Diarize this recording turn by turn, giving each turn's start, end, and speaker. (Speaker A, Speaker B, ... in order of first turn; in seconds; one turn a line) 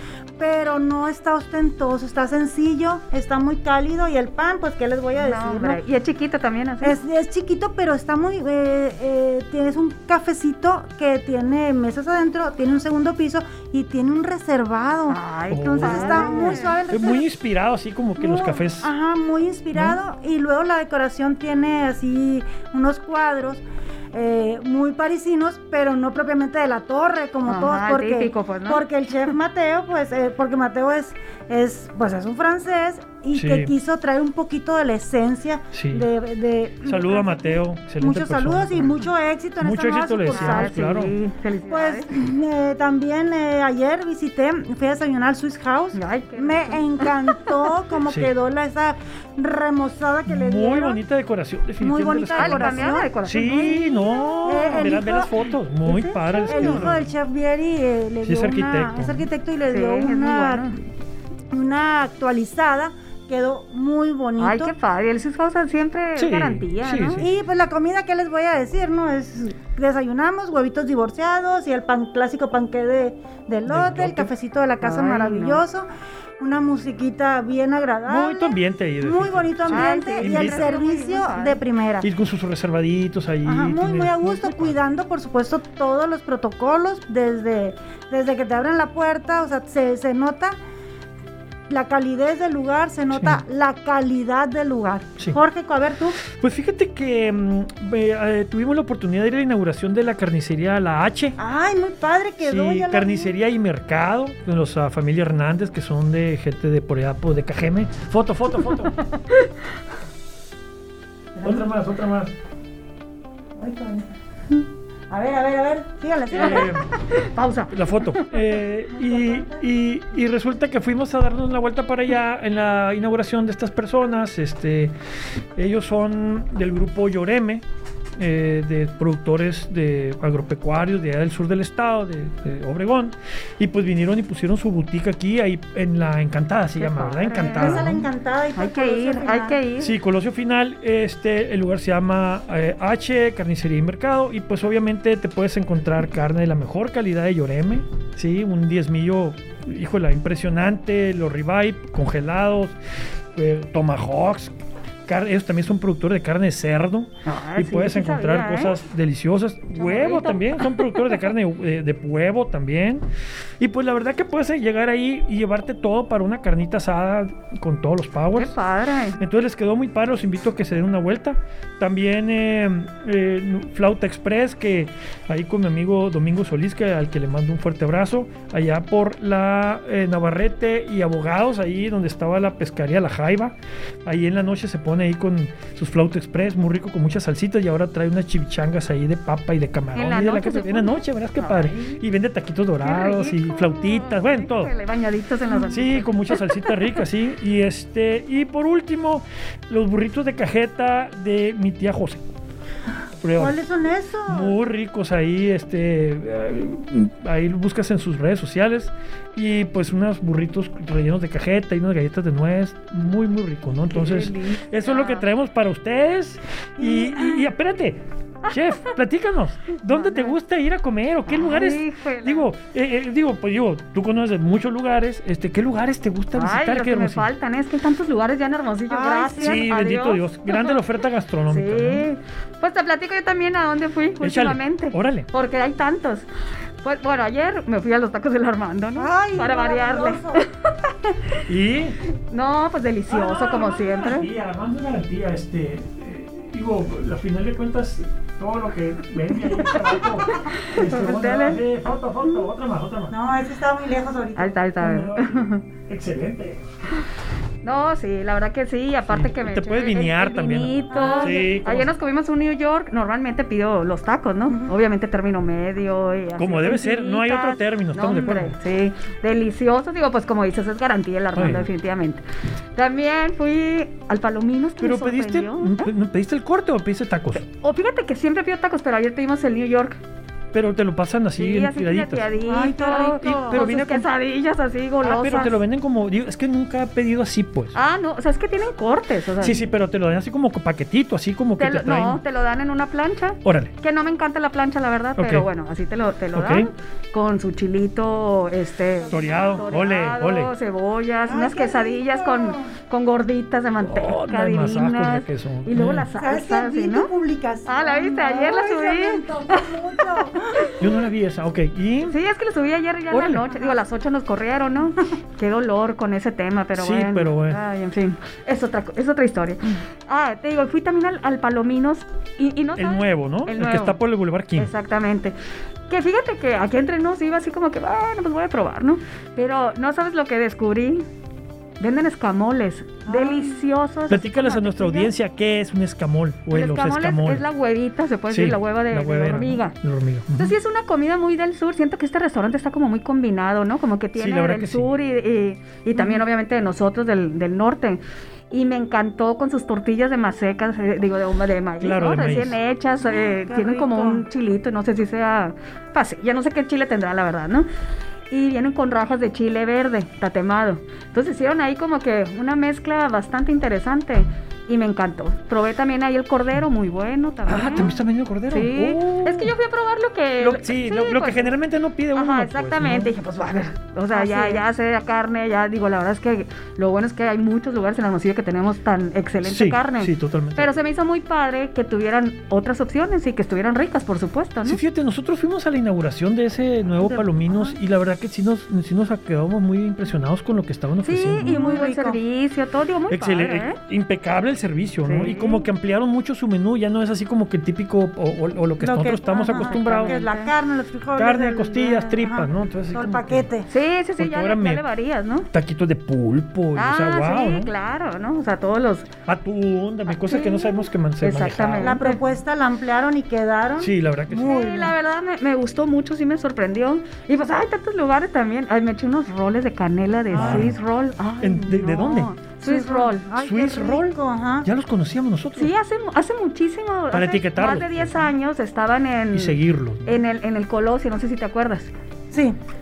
Speaker A: 0.4-5.8
Speaker B: 5.2-7.0
Speaker A: 6.8-17.2
Speaker B: 15.1-16.8
Speaker C: 15.5-18.9
Speaker A: 18.2-40.9
Speaker C: 19.7-20.0
Speaker B: 27.4-28.8
Speaker C: 33.3-33.7
Speaker C: 35.7-36.1
Speaker C: 36.8-39.0
Speaker C: 39.6-41.1
Speaker B: 40.3-42.1
Speaker A: 41.7-51.0
Speaker B: 45.9-47.6
Speaker C: 50.3-57.1
Speaker A: 51.8-53.1
Speaker B: 52.4-54.9
Speaker A: 54.4-55.3
Speaker B: 55.9-56.8
Speaker A: 56.4-60.7
Speaker C: 58.2-59.2
Speaker B: 59.7-60.8
Speaker A: 61.5-64.7
Speaker B: 64.4-67.2
Speaker C: 66.2-67.3
Speaker A: 67.2-75.8
Speaker C: 73.7-74.3
Speaker B: 74.8-75.6
Speaker A: 76.4-82.1
Speaker C: 78.1-80.7
Speaker B: 79.7-81.6
Speaker C: 82.0-84.8
Speaker A: 83.4-90.5
Speaker A: 91.7-96.2
Speaker C: 93.1-93.4
Speaker C: 96.2-101.4
Speaker A: 101.4-103.3
Speaker C: 102.4-109.0
Speaker B: 108.9-109.5
Speaker A: 111.3-111.7
Speaker C: 111.4-112.3
Speaker A: 113.6-116.8
Speaker C: 116.3-116.8
Speaker B: 116.3-118.2
Speaker C: 117.7-124.9
Speaker A: 119.0-119.6
Speaker C: 125.5-127.6
Speaker C: 128.2-138.1
Speaker B: 136.8-137.9
Speaker A: 137.4-139.6
Speaker B: 138.6-139.9
Speaker C: 139.8-152.7
Speaker C: 153.3-154.5
Speaker C: 155.1-163.0
Speaker B: 157.2-158.8
Speaker B: 159.7-160.8
Speaker C: 163.6-168.5
Speaker B: 168.3-169.2
Speaker C: 169.2-183.5
Speaker C: 184.1-194.7
Speaker B: 189.9-192.0
Speaker B: 192.8-196.8
Speaker C: 195.7-202.2
Speaker C: 203.2-203.6
Speaker A: 203.3-204.5
Speaker C: 204.3-227.3
Speaker B: 213.9-215.2
Speaker A: 216.8-217.5
Speaker B: 219.8-220.3
Speaker B: 221.3-222.5
Speaker B: 226.3-230.8
Speaker A: 228.9-229.7
Speaker C: 229.4-232.1
Speaker B: 231.5-236.3
Speaker C: 234.2-235.3
Speaker B: 236.8-241.1
Speaker A: 238.9-240.4
Speaker C: 241.5-242.0
Speaker B: 242.3-244.3
Speaker C: 243.1-253.1
Speaker B: 249.5-251.6
Speaker A: 253.1-254.6
Speaker B: 254.3-255.6
Speaker C: 254.8-256.6
Speaker B: 257.6-272.2
Speaker C: 259.1-261.9
Speaker A: 260.9-261.5
Speaker C: 266.4-268.5
Speaker C: 271.4-271.7
Speaker B: 272.8-275.9
Speaker C: 274.8-277.4
Speaker B: 277.4-280.0
Speaker C: 280.5-282.3
Speaker B: 281.4-285.6
Speaker A: 282.4-283.6
Speaker C: 283.2-284.1
Speaker C: 285.0-287.7
Speaker B: 287.7-289.6
Speaker C: 289.4-292.2
Speaker B: 291.6-307.1
Speaker C: 293.4-293.7
Speaker C: 295.2-295.5
Speaker C: 296.3-296.7
Speaker C: 299.1-300.5
Speaker A: 301.3-302.7
Speaker C: 303.8-306.1
Speaker A: 306.1-310.7
Speaker B: 307.6-310.8
Speaker C: 310.8-312.1
Speaker B: 312.1-324.0
Speaker C: 313.1-313.5
Speaker C: 316.7-317.6
Speaker C: 322.8-324.7
Speaker B: 324.6-325.3
Speaker B: 325.9-331.1
Speaker B: 331.8-335.1
Speaker A: 333.1-333.6
Speaker C: 334.1-337.4
Speaker B: 336.5-339.8
Speaker C: 338.3-340.5
Speaker B: 340.3-357.6
Speaker C: 344.1-344.9
Speaker A: 345.9-346.2
Speaker C: 351.8-352.6
Speaker A: 353.0-354.3
Speaker B: 358.3-367.9
Speaker C: 367.5-369.5
Speaker B: 368.5-371.5
Speaker C: 370.4-373.1
Speaker B: 372.1-384.8
Speaker A: 374.1-374.6
Speaker C: 379.4-380.7
Speaker C: 384.6-391.6
Speaker A: 387.0-387.8
Speaker B: 391.0-393.8
Speaker A: 391.4-392.2
Speaker C: 393.1-400.2
Speaker B: 395.0-395.6
Speaker A: 398.8-403.7
Speaker B: 399.5-400.5
Speaker C: 401.1-403.5
Speaker B: 403.7-405.5
Speaker C: 404.2-404.8
Speaker C: 405.5-407.7
Speaker B: 406.8-409.1
Speaker C: 409.2-412.0
Speaker B: 410.1-412.2
Speaker A: 411.8-414.9
Speaker C: 413.8-414.8
Speaker B: 414.4-423.3
Speaker A: 420.3-420.7
Speaker C: 420.3-420.8
Speaker C: 421.4-422.3
Speaker A: 422.6-424.7
Speaker C: 423.4-424.1
Speaker C: 424.6-425.7
Speaker B: 425.6-431.9
Speaker C: 427.1-428.3
Speaker C: 429.3-430.1
Speaker A: 432.3-432.6